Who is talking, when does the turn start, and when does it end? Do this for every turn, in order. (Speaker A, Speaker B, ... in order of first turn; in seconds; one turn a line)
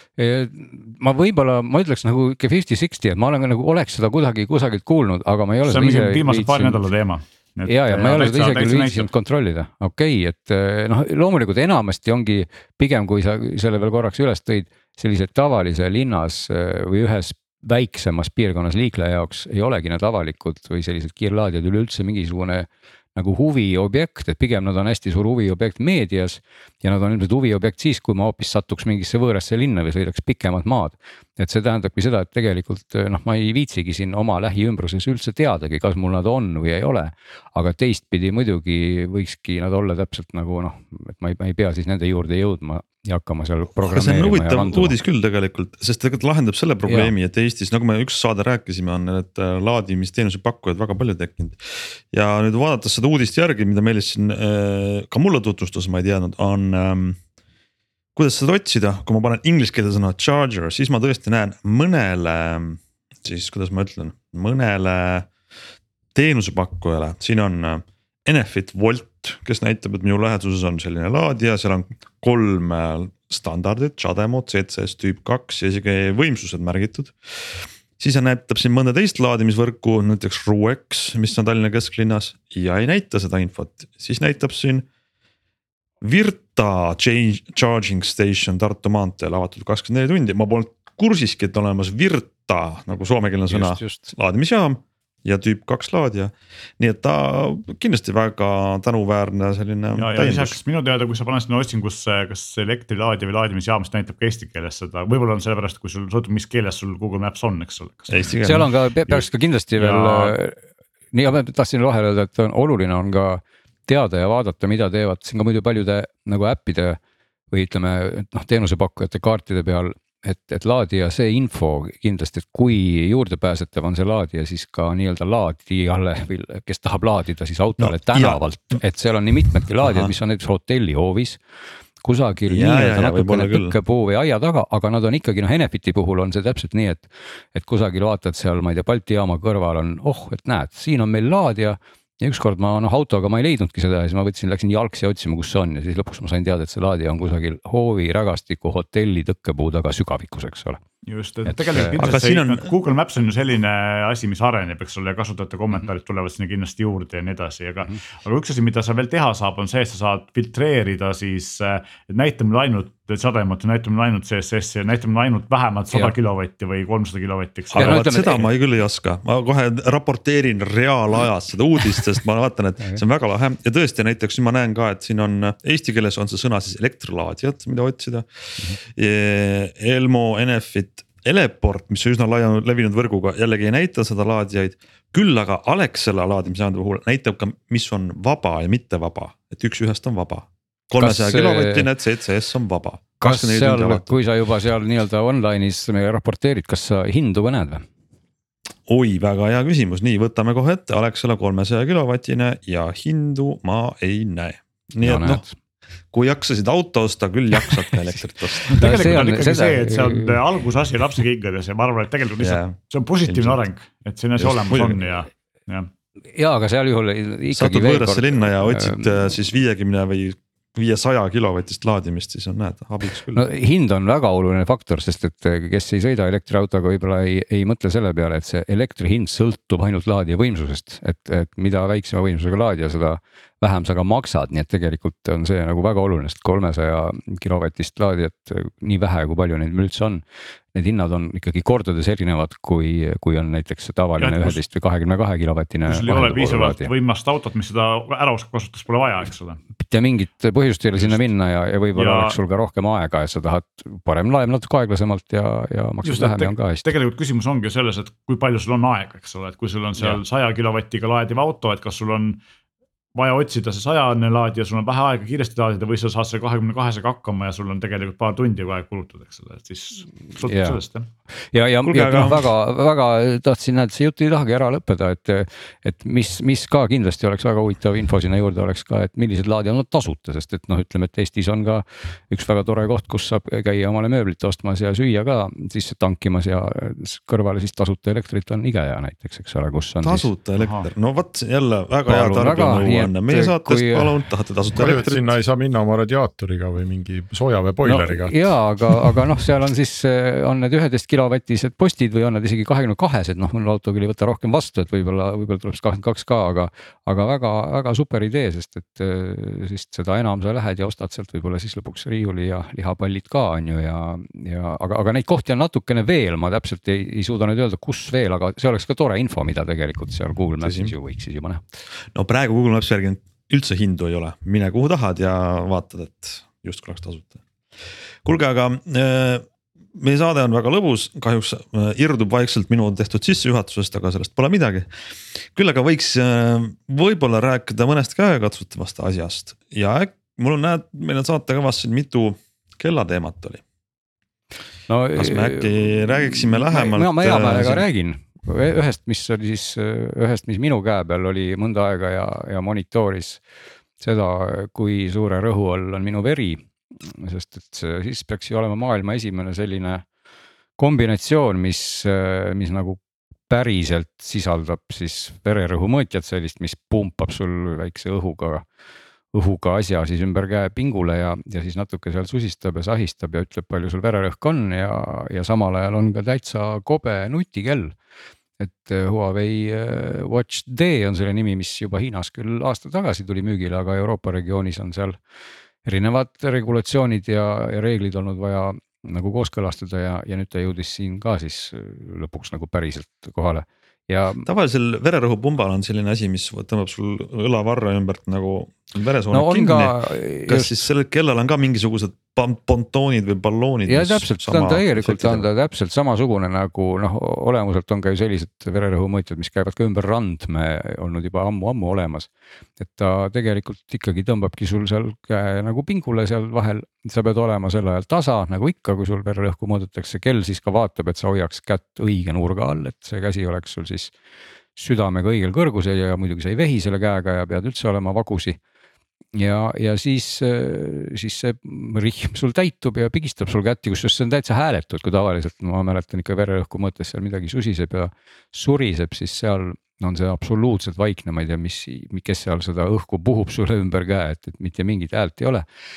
Speaker A: 0.2-6.8
Speaker B: 5.7-9.1
Speaker A: 7.7-45.0
Speaker C: 43.9-57.2
Speaker A: 46.9-47.1
Speaker C: 58.2-65.3
Speaker C: 66.2-84.9
Speaker C: 86.0-100.6
Speaker A: 93.5-94.1
Speaker B: 100.0-108.2
Speaker C: 108.1-108.7
Speaker A: 108.4-110.6
Speaker B: 109.8-110.3
Speaker A: 111.1-117.0
Speaker A: 117.5-131.4
Speaker C: 127.8-128.7
Speaker C: 129.8-130.1
Speaker A: 132.0-150.8
Speaker C: 132.5-133.8
Speaker B: 151.0-168.1
Speaker A: 151.4-152.0
Speaker C: 152.0-152.7
Speaker C: 167.7-194.2
Speaker A: 167.8-168.5
Speaker A: 191.0-191.9
Speaker A: 193.2-197.9
Speaker C: 198.9-205.5
Speaker A: 205.0-205.5
Speaker C: 206.1-209.0
Speaker B: 208.7-215.9
Speaker A: 208.7-210.4
Speaker C: 212.4-213.6
Speaker C: 214.4-215.0
Speaker A: 216.3-219.3
Speaker C: 217.5-223.4
Speaker A: 223.3-240.2
Speaker A: 240.7-246.9
Speaker B: 244.2-244.6
Speaker B: 245.9-249.6
Speaker A: 249.8-256.9
Speaker B: 251.0-251.3
Speaker B: 251.9-252.4
Speaker B: 256.0-262.4
Speaker B: 263.1-271.1
Speaker A: 270.4-270.8
Speaker A: 271.4-290.3
Speaker C: 271.9-272.5
Speaker C: 290.0-295.3
Speaker B: 290.6-290.9
Speaker A: 292.1-294.1
Speaker D: 294.8-298.4
Speaker A: 297.8-321.6
Speaker C: 320.6-320.9
Speaker C: 322.1-327.4
Speaker C: 328.2-329.4
Speaker C: 330.0-343.6
Speaker A: 344.9-353.4
Speaker C: 345.1-347.8
Speaker A: 354.0-360.1
Speaker A: 360.8-368.6
Speaker A: 369.3-377.9
Speaker A: 378.6-385.2
Speaker A: 385.9-394.5
Speaker C: 394.5-405.5
Speaker A: 399.3-400.8
Speaker A: 403.9-424.1
Speaker A: 424.8-428.6
Speaker A: 429.4-445.6